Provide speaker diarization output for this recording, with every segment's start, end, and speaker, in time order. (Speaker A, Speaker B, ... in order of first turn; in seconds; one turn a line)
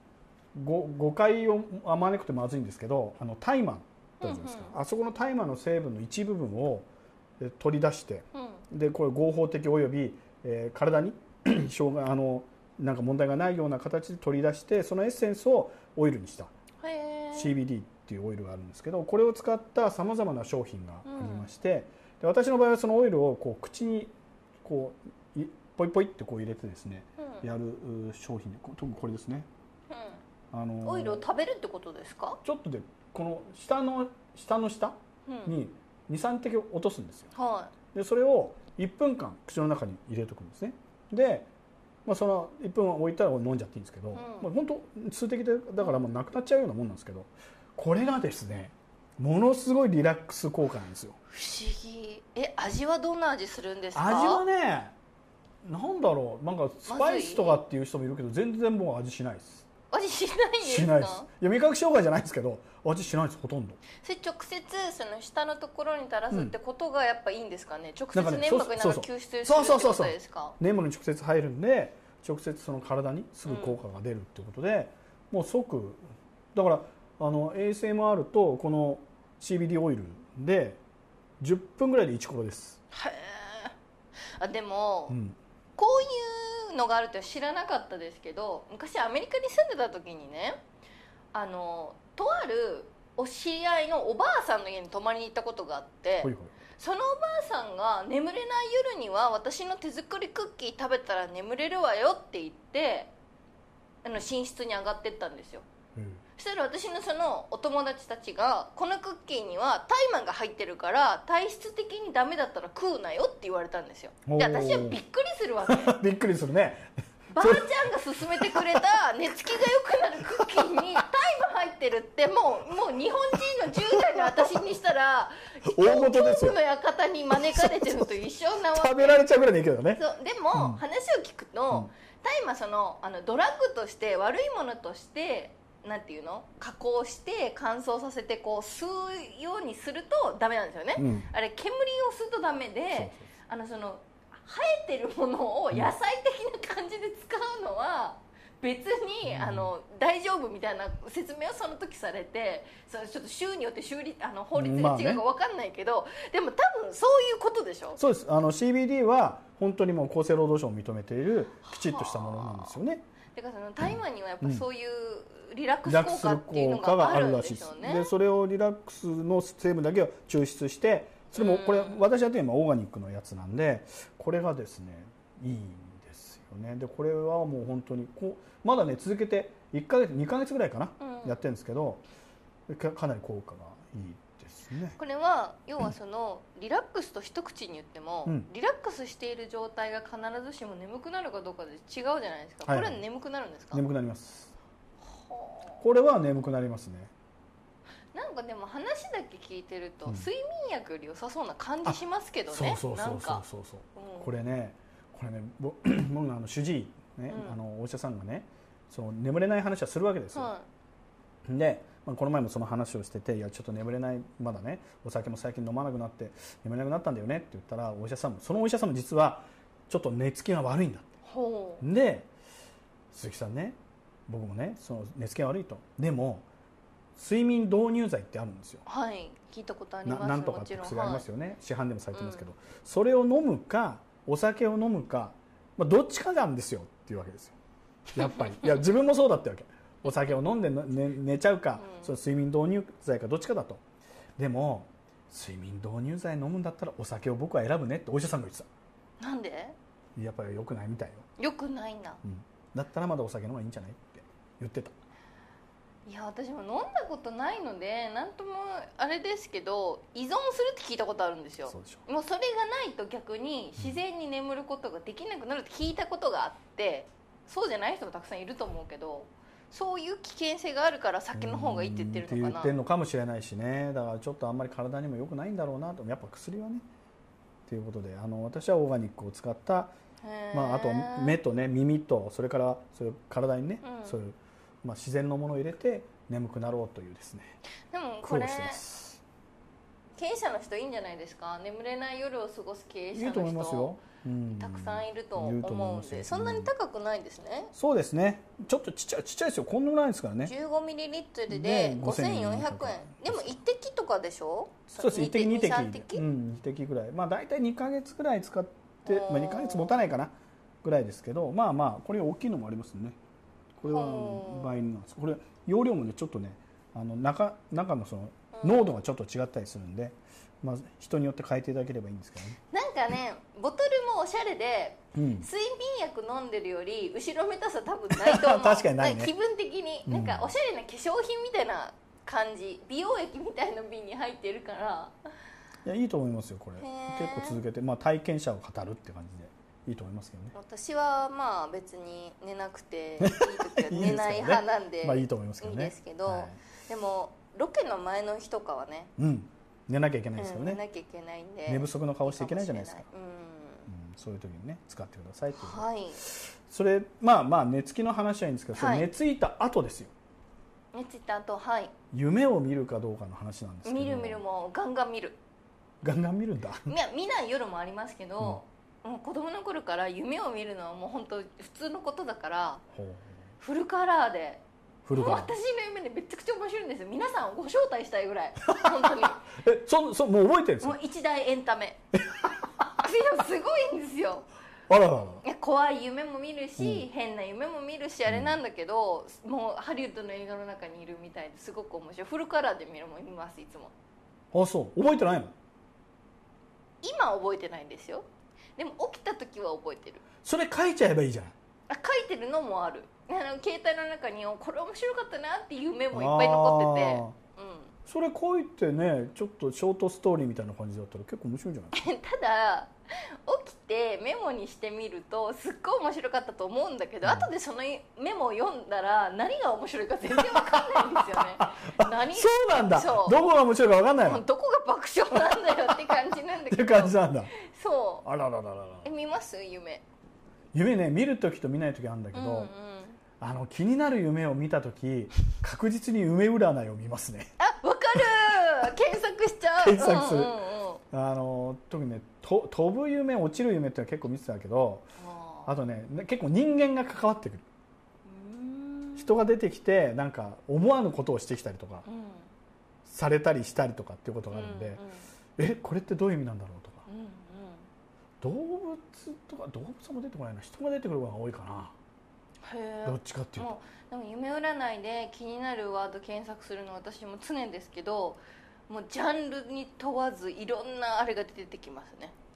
Speaker A: 0.5-16.5
Speaker B: 4.2-4.8
Speaker B: 8.3-8.6
Speaker B: 16.8-17.6
Speaker A: 17.3-29.5
Speaker B: 21.0-21.5
Speaker B: 27.2-27.4
Speaker B: 29.9-30.2
Speaker A: 30.5-31.2
Speaker B: 30.8-32.4
Speaker A: 32.4-37.3
Speaker B: 35.3-35.5
Speaker B: 37.3-37.7
Speaker A: 37.9-41.5
Speaker A: 42.0-51.2
Speaker B: 44.1-44.5
Speaker B: 45.8-46.0
Speaker B: 51.3-54.4
Speaker A: 53.9-54.9
Speaker A: 55.6-59.7
Speaker B: 56.9-57.6
Speaker B: 59.9-61.3
Speaker A: 60.6-63.8
Speaker B: 64.0-70.6
Speaker A: 68.1-80.8
Speaker B: 73.5-73.8
Speaker A: 81.4-82.8
Speaker B: 82.9-83.7
Speaker B: 84.4-85.2
Speaker A: 85.1-85.4
Speaker B: 85.8-90.6
Speaker B: 91.3-103.1
Speaker A: 96.2-96.5
Speaker B: 104.0-105.6
Speaker A: 105.9-106.2
Speaker B: 106.4-116.0
Speaker A: 114.2-115.0
Speaker A: 115.6-117.7
Speaker B: 117.3-129.2
Speaker A: 118.3-118.8
Speaker A: 120.3-120.7
Speaker A: 123.7-124.6
Speaker A: 125.6-126.6
Speaker A: 127.3-128.2
Speaker A: 128.7-130.0
Speaker B: 129.9-158.0
Speaker A: 130.5-130.8
Speaker A: 140.9-141.3
Speaker A: 142.9-143.3
Speaker A: 149.2-149.7
Speaker A: 154.5-155.2
Speaker A: 158.0-163.0
Speaker B: 161.6-162.8
Speaker B: 163.3-168.1
Speaker A: 165.8-182.0
Speaker B: 171.3-172.0
Speaker B: 181.0-181.4
Speaker A: 182.7-185.0
Speaker B: 185.0-193.8
Speaker A: 192.6-193.0
Speaker A: 193.7-194.5
Speaker B: 195.1-195.8
Speaker A: 195.8-197.1
Speaker B: 198.1-203.4
Speaker A: 201.8-210.5
Speaker B: 203.9-204.3
Speaker B: 207.3-207.6
Speaker B: 210.3-210.7
Speaker A: 211.4-221.1
Speaker B: 221.2-221.8
Speaker A: 221.8-222.3
Speaker A: 223.1-226.4
Speaker A: 227.2-228.8
Speaker B: 228.8-231.2
Speaker A: 230.0-237.5
Speaker B: 232.1-232.4
Speaker A: 238.1-243.8
Speaker B: 238.2-238.6
Speaker B: 241.8-242.1
Speaker A: 244.4-248.7
Speaker B: 249.2-249.8
Speaker A: 250.2-251.2
Speaker B: 251.4-252.2
Speaker A: 252.2-254.9
Speaker B: 256.1-272.7
Speaker A: 261.7-262.0
Speaker A: 271.3-276.9
Speaker A: 277.7-279.9
Speaker B: 280.2-281.4
Speaker A: 280.5-287.6
Speaker B: 283.8-284.2
Speaker B: 287.9-288.8
Speaker A: 288.2-289.2
Speaker B: 290.2-293.9
Speaker A: 293.1-296.7
Speaker B: 294.6-297.7
Speaker A: 297.7-300.5
Speaker B: 300.4-306.2
Speaker A: 301.5-303.6
Speaker A: 304.9-313.2
Speaker B: 309.1-310.1
Speaker A: 313.8-322.6
Speaker B: 313.9-314.7
Speaker B: 318.5-319.0
Speaker B: 322.7-335.1
Speaker A: 325.1-325.5
Speaker A: 328.1-329.3
Speaker A: 330.1-330.5
Speaker A: 335.8-340.5
Speaker B: 336.8-337.6
Speaker B: 340.5-349.1
Speaker A: 343.2-346.6
Speaker A: 349.2-350.8
Speaker B: 350.4-353.9
Speaker A: 351.6-353.1
Speaker A: 353.9-360.1
Speaker B: 355.5-356.2
Speaker B: 358.7-359.1
Speaker B: 360.9-361.9
Speaker A: 362.1-364.4
Speaker B: 363.8-365.4
Speaker A: 366.0-366.9
Speaker B: 366.9-372.8
Speaker A: 372.9-373.3
Speaker B: 373.6-374.6
Speaker A: 375.0-375.5
Speaker B: 375.1-379.4
Speaker A: 378.6-381.0
Speaker B: 380.8-382.0
Speaker A: 382.1-382.6
Speaker B: 382.9-384.5
Speaker A: 384.9-385.4
Speaker B: 385.4-393.9
Speaker A: 386.8-387.1
Speaker A: 388.3-388.6
Speaker A: 394.5-395.5
Speaker B: 397.0-398.2
Speaker B: 398.8-400.2
Speaker A: 400.4-401.5
Speaker B: 401.9-407.9
Speaker A: 406.1-407.3
Speaker A: 408.1-412.0
Speaker B: 411.9-412.9
Speaker B: 413.4-423.4
Speaker A: 417.2-417.5
Speaker A: 420.3-424.4
Speaker B: 424.2-428.2
Speaker A: 425.3-427.5
Speaker A: 428.2-429.1
Speaker B: 429.0-430.0
Speaker A: 430.7-432.7
Speaker B: 432.3-433.2
Speaker A: 433.4-437.5
Speaker B: 437.6-441.0
Speaker A: 439.8-440.6
Speaker A: 441.1-445.1
Speaker B: 445.2-445.7
Speaker A: 445.6-447.6
Speaker B: 448.2-449.3
Speaker A: 449.1-452.1
Speaker B: 452.0-452.5
Speaker A: 453.0-455.0
Speaker B: 454.5-455.2
Speaker A: 455.6-457.0
Speaker B: 457.1-457.8
Speaker A: 458.4-461.9
Speaker B: 462.6-472.3
Speaker A: 463.0-463.7